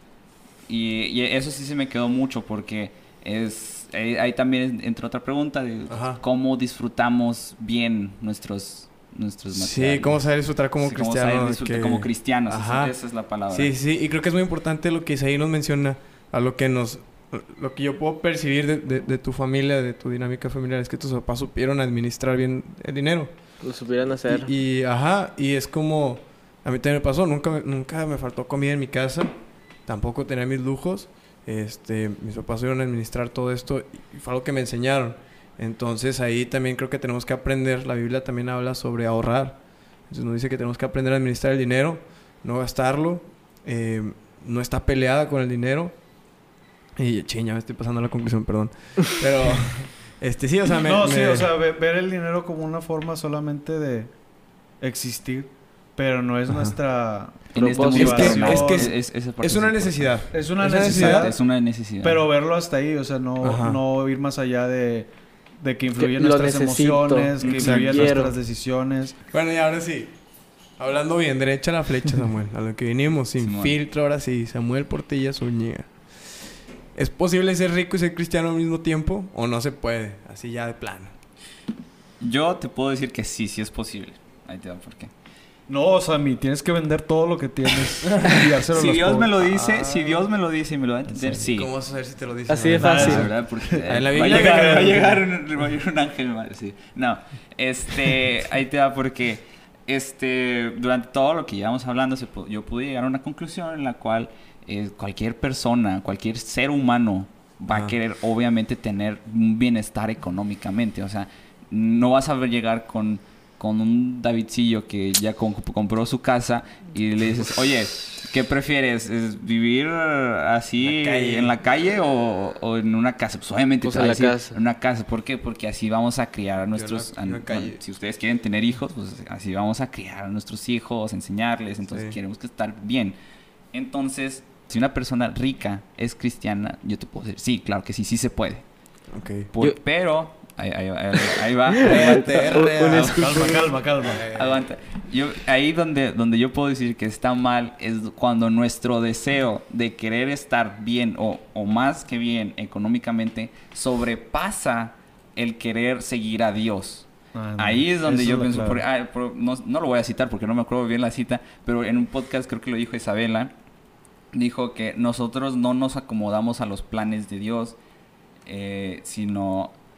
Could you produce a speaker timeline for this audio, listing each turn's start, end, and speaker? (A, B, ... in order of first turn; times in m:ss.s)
0:00.7-0:10.2 A
0:05.9-0:06.2 B
0:09.6-0:12.9 B
0:10.8-0:13.7 A
0:13.5-0:23.3 B
0:23.6-0:24.5 C
0:24.3-0:29.3 B
0:29.9-0:45.9 B
0:47.0-0:51.5 B
0:50.7-0:54.1 D
0:54.8-0:58.9 D
0:56.5-0:56.8 B
0:57.5-1:02.3 A
0:57.6-0:58.3 C
0:57.9-1:01.3 B
1:00.3-1:01.4 D
1:02.0-1:09.2 D
1:03.4-1:03.8 B
1:06.0-1:08.4 C
1:07.4-1:07.9 A
1:07.4-1:08.1 B
1:09.3-1:10.2 B
1:10.8-1:16.3 B
1:13.4-1:13.8 A
1:17.0-1:21.1 B
1:22.2-1:25.1 A
1:25.7-1:30.2 D
1:28.2-1:31.7 A
1:31.2-1:31.4 D
1:31.4-1:34.9 B
1:32.5-1:33.3 C
1:32.8-1:35.2 D
1:32.9-2:13.2 A
1:47.7-1:48.0 B
2:00.8-2:01.5 B
2:03.8-2:04.6 C
2:06.8-2:07.8 B
2:11.9-2:12.2 B
2:13.7-2:18.6 A
2:19.1-2:19.5 B
2:19.5-2:23.5 A
2:21.8-2:23.7 C
2:21.8-2:23.5 B
2:23.1-2:24.3 D
2:24.0-2:43.5 A
2:24.1-2:24.6 B
2:37.3-2:38.8 D
2:44.3-2:47.8 A
2:48.5-2:49.7 A